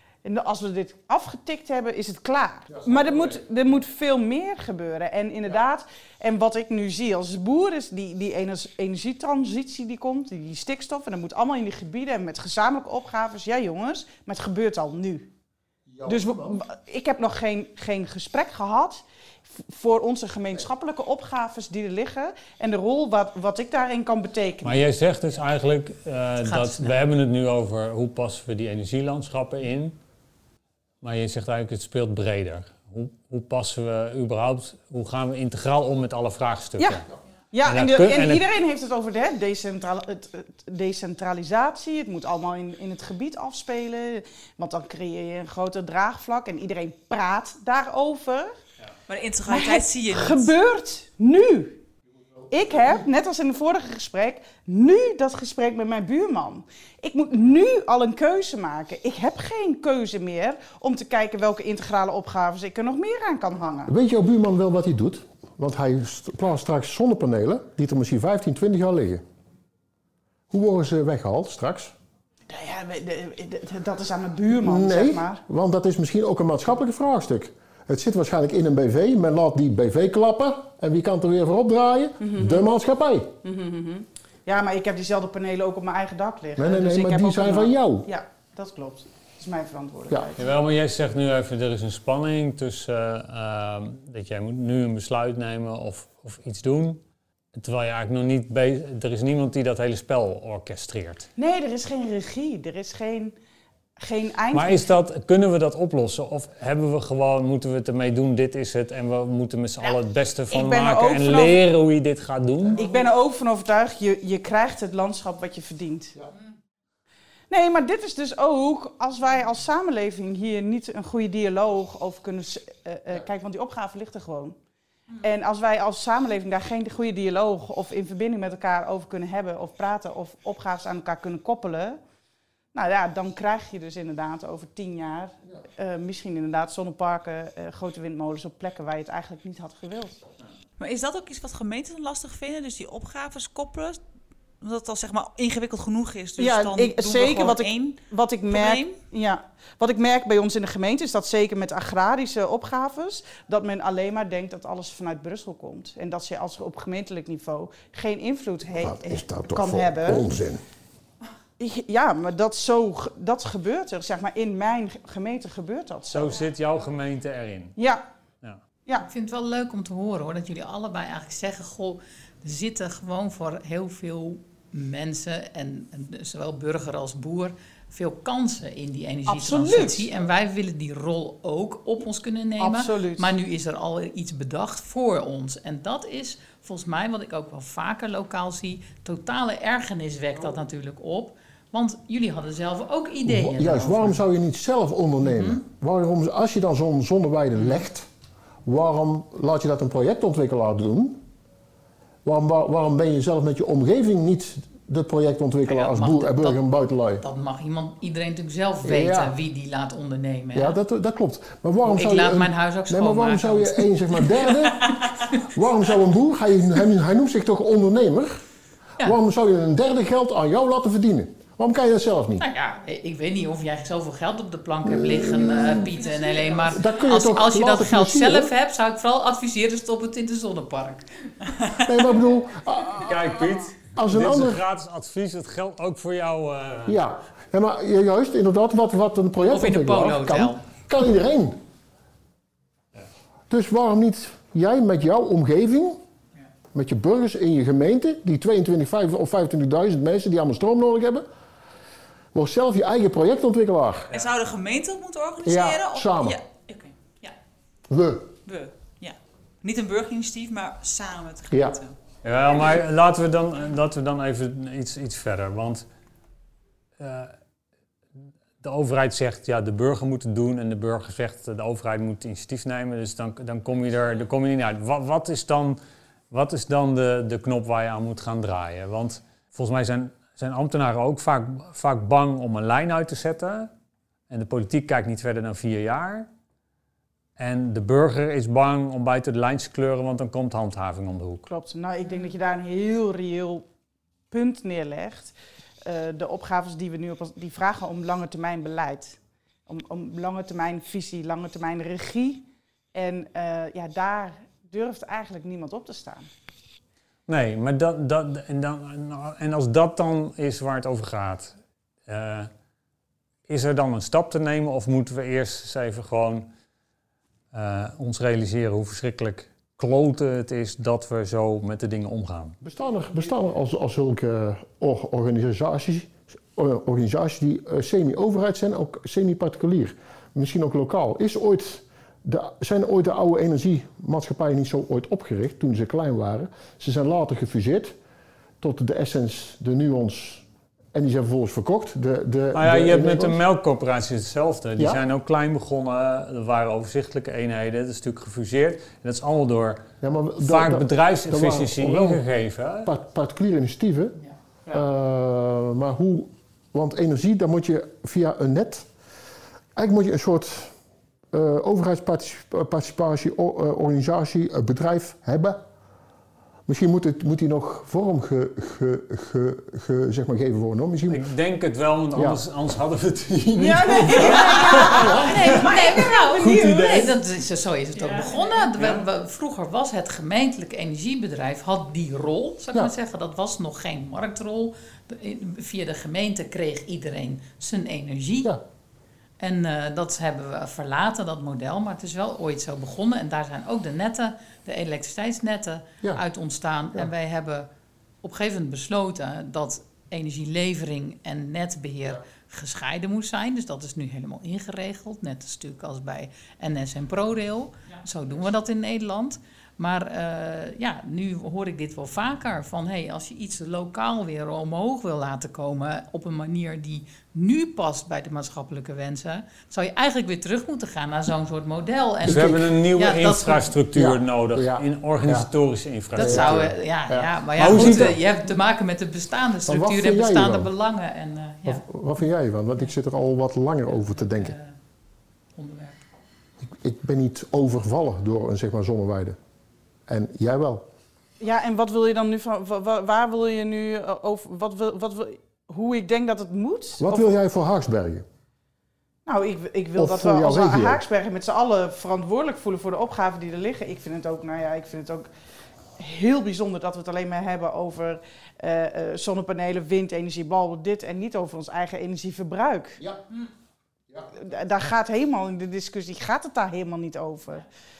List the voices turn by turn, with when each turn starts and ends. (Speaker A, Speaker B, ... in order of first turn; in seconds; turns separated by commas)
Speaker A: 0.2-15.3, Speaker A: 16.0-24.8, Speaker B: 24.6-30.0, Speaker C: 26.4-27.0, Speaker B: 31.0-37.0, Speaker A: 36.8-48.5, Speaker B: 37.6-38.5, Speaker D: 49.1-50.5, Speaker A: 49.5-51.8, Speaker A: 52.5-63.9, Speaker E: 63.9-69.2, Speaker E: 70.5-71.9, Speaker A: 72.5-75.4, Speaker E: 74.6-83.4, Speaker A: 82.2-82.6, Speaker A: 83.4-90.5, Speaker E: 86.6-88.1, Speaker B: 90.4-97.0, Speaker B: 97.5-101.3, Speaker A: 101.4-103.3, Speaker A: 104.0-105.0, Speaker B: 104.5-112.8, Speaker A: 110.5-111.6, Speaker A: 112.7-116.2, Speaker A: 117.5-124.6, Speaker A: 125.2-132.0, Speaker A: 132.7-140.2, Speaker D: 140.8-144.0, Speaker D: 144.6-149.0, Speaker A: 146.4-160.2, Speaker E: 158.8-160.6, Speaker A: 161.6-166.3, Speaker B: 166.1-167.8, Speaker A: 167.8-168.0, Speaker C: 169.0-194.2, Speaker A: 179.3-180.1, Speaker A: 182.6-183.3, Speaker E: 193.2-198.1, Speaker C: 195.2-195.6, Speaker E: 198.6-201.2, Speaker E: 202.2-207.2, Speaker C: 205.7-206.6, Speaker C: 207.2-210.8, Speaker E: 208.8-209.3, Speaker E: 210.5-214.9, Speaker C: 211.8-214.3, Speaker E: 215.4-218.4, Speaker E: 219.0-222.4, Speaker C: 222.4-231.1, Speaker E: 224.8-226.0, Speaker E: 226.7-228.5, Speaker E: 231.8-233.1, Speaker B: 232.9-237.0, Speaker E: 233.9-234.6, Speaker E: 236.8-241.6, Speaker C: 239.5-240.6, Speaker E: 243.5-246.0, Speaker E: 246.7-251.2, Speaker E: 252.3-254.1, Speaker D: 254.1-257.3, Speaker E: 255.4-256.4, Speaker E: 257.9-258.3, Speaker D: 258.4-261.9, Speaker E: 261.5-261.8, Speaker B: 262.2-265.8, Speaker B: 267.0-267.3, Speaker B: 268.6-275.8, Speaker B: 276.3-283.7, Speaker B: 284.3-286.3, Speaker B: 287.4-291.5, Speaker A: 291.5-293.6, Speaker A: 294.3-295.3, Speaker A: 295.8-306.3, Speaker B: 307.3-312.5, Speaker B: 313.5-316.5, Speaker B: 317.5-322.6, Speaker E: 322.6-337.9, Speaker E: 338.6-343.4, Speaker B: 342.5-349.8, Speaker E: 350.0-352.2, Speaker B: 350.4-352.9, Speaker E: 352.8-358.9, Speaker E: 359.8-360.7, Speaker E: 361.3-365.6, Speaker E: 366.7-371.3, Speaker B: 371.1-375.4, Speaker E: 372.1-372.4, Speaker A: 373.6-377.1, Speaker C: 374.2-388.5, Speaker B: 378.8-379.0, Speaker C: 389.4-397.7, Speaker C: 398.2-423.8, Speaker E: 422.2-422.6, Speaker B: 422.3-426.7, Speaker E: 423.9-425.5, Speaker E: 426.1-428.2, Speaker C: 426.1-431.9, Speaker B: 427.6-428.2, Speaker E: 429.7-430.7, Speaker E: 431.6-434.6, Speaker C: 433.9-434.7, Speaker C: 435.6-436.0, Speaker E: 436.6-439.4, Speaker E: 440.1-440.9, Speaker A: 441.4-447.3, Speaker E: 447.0-448.2, Speaker A: 449.2-455.3, Speaker E: 450.0-451.0, Speaker A: 456.0-463.2, Speaker A: 464.1-467.6